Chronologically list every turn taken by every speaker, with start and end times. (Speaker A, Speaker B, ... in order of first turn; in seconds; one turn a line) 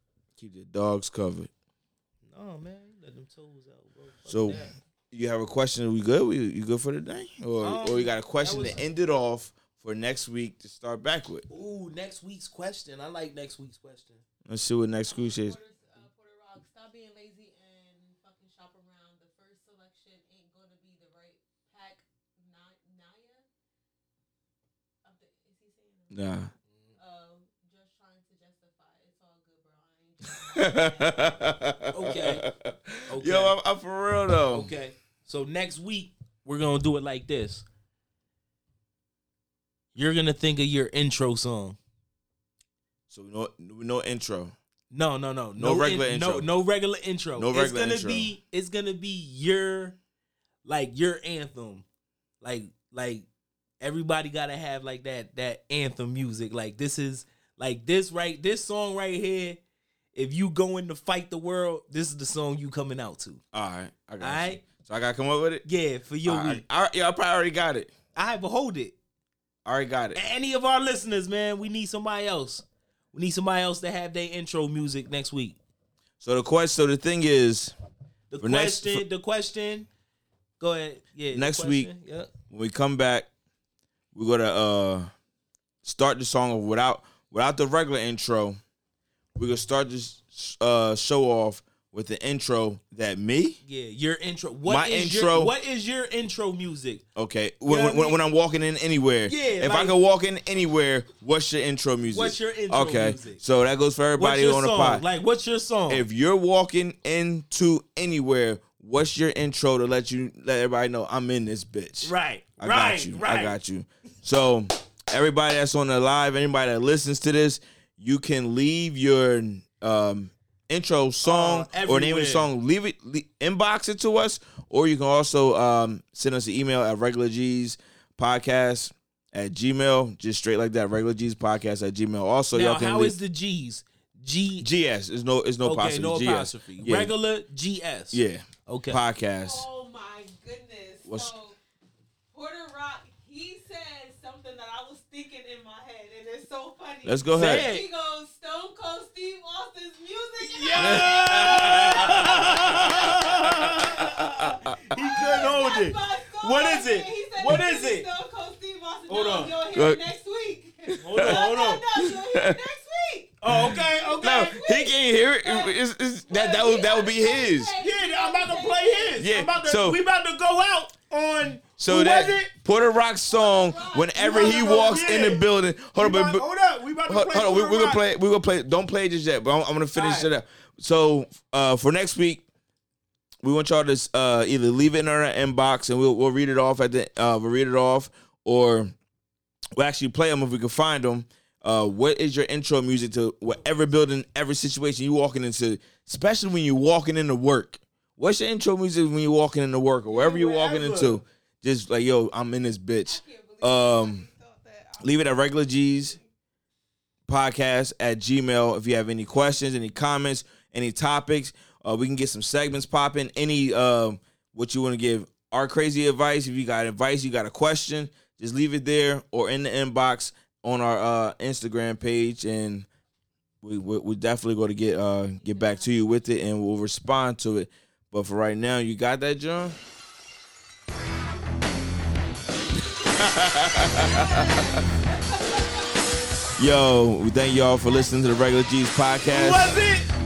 Speaker A: 0.4-1.5
Speaker B: 2.3-4.7
Speaker A: 4.3-11.4
Speaker B: 7.6-8.8
Speaker B: 11.5-14.2
Speaker A: 14.5-15.6
Speaker C: 15.1-23.4
Speaker C: 25.0-26.2
Speaker A: 26.1-26.5
Speaker C: 27.0-31.4
Speaker A: 30.5-34.7
Speaker B: 31.9-32.4
Speaker B: 33.1-33.5
Speaker B: 34.5-37.6
Speaker B: 39.9-41.8
Speaker A: 43.1-44.5
Speaker B: 44.9-50.0
Speaker A: 45.5-46.5
Speaker A: 47.4-48.3
Speaker B: 50.6-51.8
Speaker B: 52.4-53.2
Speaker B: 53.8-59.6
Speaker B: 60.1-63.4
Speaker A: 63.5-65.7
Speaker B: 64.2-64.6
Speaker B: 65.6-66.6
Speaker A: 66.2-67.9
Speaker B: 68.1-68.9
Speaker A: 69.6-70.2
Speaker B: 70.1-75.6
Speaker A: 76.2-77.7
Speaker B: 78.3-79.9
Speaker A: 78.4-79.0
Speaker B: 80.6-82.3
Speaker A: 81.3-81.9
Speaker A: 82.5-83.3
Speaker A: 84.1-85.1
Speaker A: 85.8-88.6
Speaker A: 89.3-93.6
Speaker B: 93.6-97.0
Speaker A: 94.7-95.5
Speaker A: 97.2-105.0
Speaker B: 97.7-98.2
Speaker B: 99.3-99.9
Speaker B: 102.1-103.4
Speaker B: 104.2-106.0
Speaker A: 105.9-133.1
Speaker B: 112.0-113.6
Speaker B: 121.2-122.5
Speaker B: 132.5-134.7
Speaker A: 134.6-137.1
Speaker B: 135.6-139.0
Speaker A: 138.1-139.7
Speaker C: 139.3-141.6
Speaker A: 141.1-141.3
Speaker C: 142.3-163.4
Speaker A: 147.0-147.7
Speaker B: 147.3-147.8
Speaker B: 150.4-158.1
Speaker A: 150.8-154.7
Speaker B: 159.1-159.5
Speaker A: 159.7-160.0
Speaker A: 160.8-161.4
Speaker B: 161.0-161.8
Speaker A: 161.9-162.6
Speaker B: 163.4-164.5
Speaker A: 163.5-167.8
Speaker C: 163.9-165.8
Speaker C: 166.3-169.2
Speaker B: 167.8-172.5
Speaker A: 169.2-170.0
Speaker A: 171.8-176.4
Speaker C: 173.3-175.4
Speaker B: 174.2-178.0
Speaker A: 177.1-182.4
Speaker B: 179.9-180.3
Speaker A: 183.4-188.9
Speaker A: 189.8-204.3
Speaker B: 200.1-201.2
Speaker C: 203.0-205.6
Speaker A: 205.0-206.2
Speaker A: 207.3-222.9
Speaker A: 223.6-229.8
Speaker C: 225.4-226.2
Speaker A: 233.1-234.8
Speaker C: 235.2-235.9
Speaker A: 236.6-239.8
Speaker C: 238.1-238.4
Speaker B: 239.3-240.1